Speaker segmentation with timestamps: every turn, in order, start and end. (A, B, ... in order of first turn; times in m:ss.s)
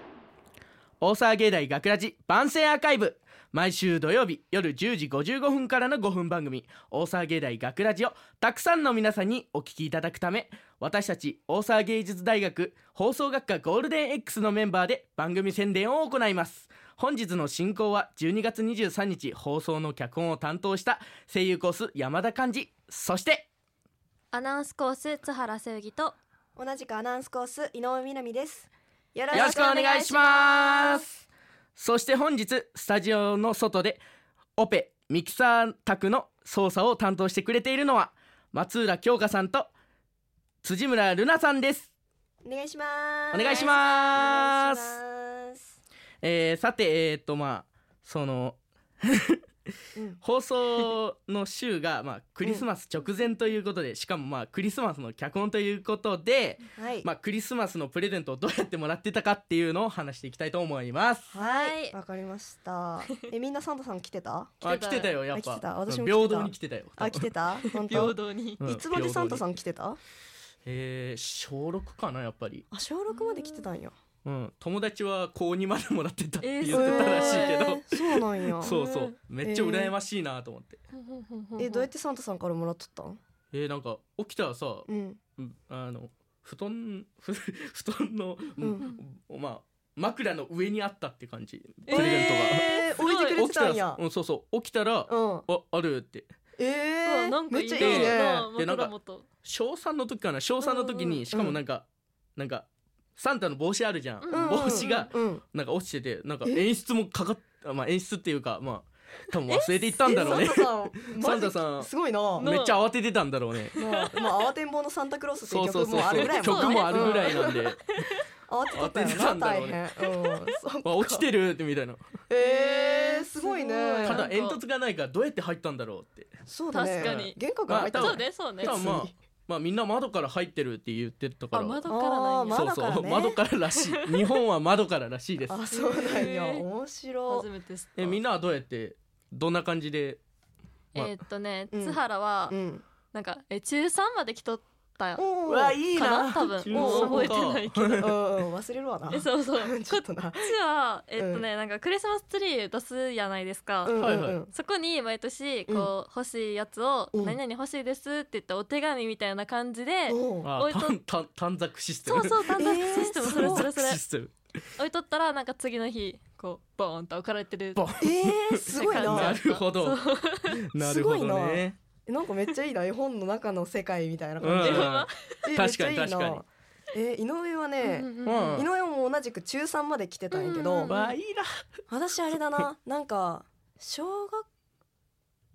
0:01.0-0:23.5 A
0:24.3-0:26.2 B
0:26.6-0:30.3 C
0:29.3-0:31.0 B
0:29.3-0:31.1 A
0:31.8-0:34.0 A
0:34.6-0:39.7 A
0:40.6-0:41.9 A
0:42.4-0:45.6 C
0:43.3-0:44.9 A
0:46.2-0:49.4 A
0:50.2-1:01.3 A
0:56.7-0:57.1 C
1:01.3-1:10.0 C
1:01.3-1:02.0 B
1:04.6-1:07.3 A
1:04.6-1:05.1 B
1:07.8-1:08.6 B
1:08.6-1:09.5 A
1:10.6-1:12.6 A
1:12.7-1:13.9 C
1:13.1-1:13.6 B
1:14.2-1:20.8 A
1:16.4-1:17.6 B
1:16.7-1:18.8 C
1:18.6-1:19.1 B
1:19.4-1:19.9 C
1:20.9-1:21.9 B
1:21.6-1:23.2 C
1:23.5-1:36.3 A
1:24.9-1:25.2 C
1:28.6-1:28.8 C
1:31.9-1:33.3 B
1:31.9-1:34.0 C
1:35.1-1:35.5 C
1:36.6-1:38.5 C
1:37.0-1:39.3 B
1:37.8-1:38.9 A
1:39.4-1:53.8 A
1:40.6-1:41.6 C
1:44.2-1:45.1 B
1:44.3-1:45.4 C
1:50.0-1:52.5 C
1:52.4-1:52.8 B
1:53.7-1:54.4 B
1:53.8-1:57.6 C
1:55.4-1:57.8 A
1:56.0-1:58.2 B
1:58.5-2:01.3 C
1:58.7-1:59.8 A
2:00.8-2:02.0 A
2:02.3-2:04.3 C
2:02.4-2:04.6 B
2:04.0-2:06.3 A
2:06.5-2:09.1 C
2:06.7-2:08.8 B
2:07.0-2:11.9 A
2:11.5-2:12.7 B
2:11.9-2:13.4 C
2:12.5-2:15.6 A
2:15.5-2:17.5 C
2:15.7-2:16.6 B
2:17.3-2:18.2 B
2:17.9-2:20.2 A
2:20.9-2:22.6 B
2:21.7-2:22.8 C
2:23.1-2:25.2 B
2:25.2-2:27.3 C
2:25.4-2:28.2 A
2:25.9-2:28.1 B
2:28.0-2:30.5 C
2:29.1-2:34.0 B
2:31.2-2:31.4 C
2:33.8-2:34.5 C
2:34.0-2:34.4 A
2:34.5-2:41.0 B
2:37.1-2:37.4 C
2:40.1-2:40.5 C
2:40.4-2:42.6 A
2:42.0-2:44.0 B
2:42.5-2:43.7 C
2:43.2-2:44.3 A
2:44.8-2:47.8 B
2:47.8-2:51.8 A
2:48.0-2:49.4 C
2:48.7-2:50.5 B
2:50.8-3:01.0 C
2:54.4-2:56.4 A
2:54.6-2:55.5 B
2:57.8-2:58.6 B
2:58.2-2:58.7 A
3:00.3-3:01.1 B
3:00.9-3:01.6 A
3:01.9-3:04.4 C